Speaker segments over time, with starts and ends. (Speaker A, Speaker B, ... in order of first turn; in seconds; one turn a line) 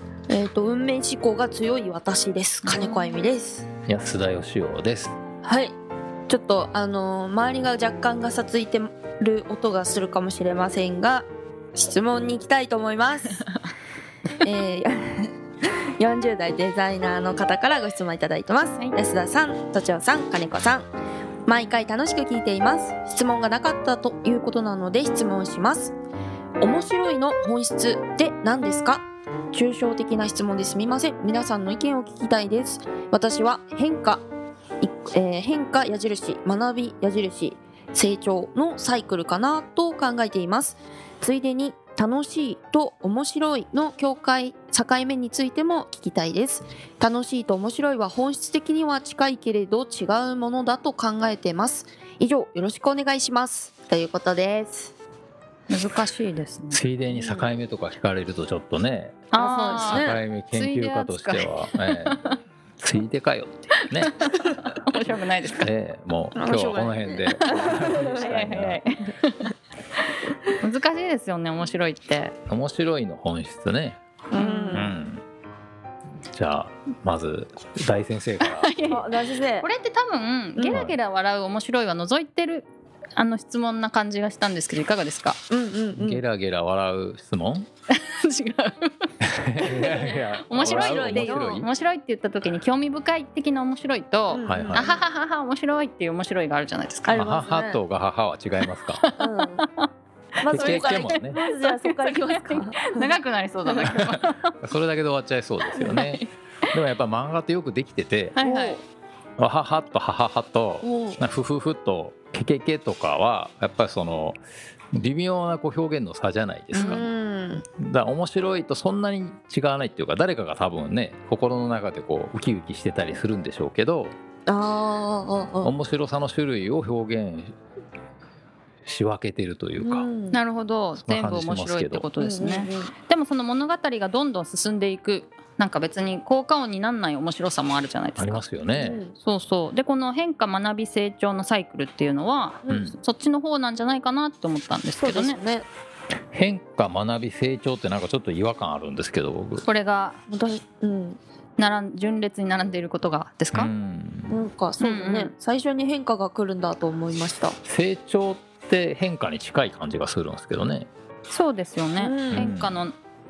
Speaker A: 0.3-3.7
Speaker B: 2.6-3.2
Speaker C: 3.9-5.2
Speaker A: 5.4-5.8
Speaker A: 6.3-13.4
Speaker A: 14.4-20.9
Speaker A: 21.5-26.0
Speaker A: 26.6-34.2
Speaker A: 34.8-54.9
Speaker B: 55.7-56.8
Speaker C: 56.7-62.2
Speaker A: 57.1-57.5
Speaker B: 59.3-62.4
Speaker A: 59.4-60.2
Speaker C: 62.8-64.2
Speaker B: 64.0-65.7
Speaker C: 65.6-68.8
Speaker A: 66.3-68.4
Speaker B: 67.4-69.5
Speaker B: 70.5-72.3
Speaker C: 72.5-74.0
Speaker B: 74.3-74.9
Speaker A: 74.3-74.9
Speaker C: 74.7-75.2
Speaker C: 76.3-78.7
Speaker B: 78.4-85.4
Speaker A: 78.9-79.7
Speaker A: 85.5-86.2
Speaker C: 86.0-87.7
Speaker B: 87.9-88.9
Speaker C: 89.2-91.7
Speaker A: 89.6-91.7
Speaker B: 89.8-97.2
Speaker A: 94.3-95.0
Speaker C: 94.4-95.0
Speaker A: 97.1-97.8
Speaker C: 97.1-99.0
Speaker B: 99.0-99.9
Speaker A: 99.2-99.6
Speaker A: 100.4-103.2
Speaker B: 100.4-104.5
Speaker C: 100.5-101.4
Speaker C: 104.0-108.4
Speaker B: 105.8-106.3
Speaker B: 108.4-108.8
Speaker A: 108.4-108.8
Speaker C: 109.4-114.4
Speaker A: 110.8-111.2
Speaker C: 114.9-117.0
Speaker A: 116.7-117.7
Speaker B: 116.7-117.1
Speaker C: 117.8-124.2
Speaker A: 124.5-125.7
Speaker C: 125.6-127.5
Speaker C: 128.8-130.1
Speaker A: 129.8-130.4
Speaker B: 130.3-138.4
Speaker C: 131.0-132.1
Speaker A: 132.2-132.9
Speaker C: 138.2-139.0
Speaker A: 138.8-139.1
Speaker B: 139.2-145.4
Speaker C: 142.7-143.0
Speaker A: 145.0-145.7
Speaker C: 146.3-149.7
Speaker B: 149.6-150.2
Speaker A: 150.3-151.2
Speaker B: 151.6-153.7
Speaker C: 153.5-154.4
Speaker A: 154.3-157.6
Speaker B: 154.8-155.3
Speaker C: 157.7-160.9
Speaker B: 161.3-163.0
Speaker A: 162.0-162.5
Speaker C: 162.3-162.8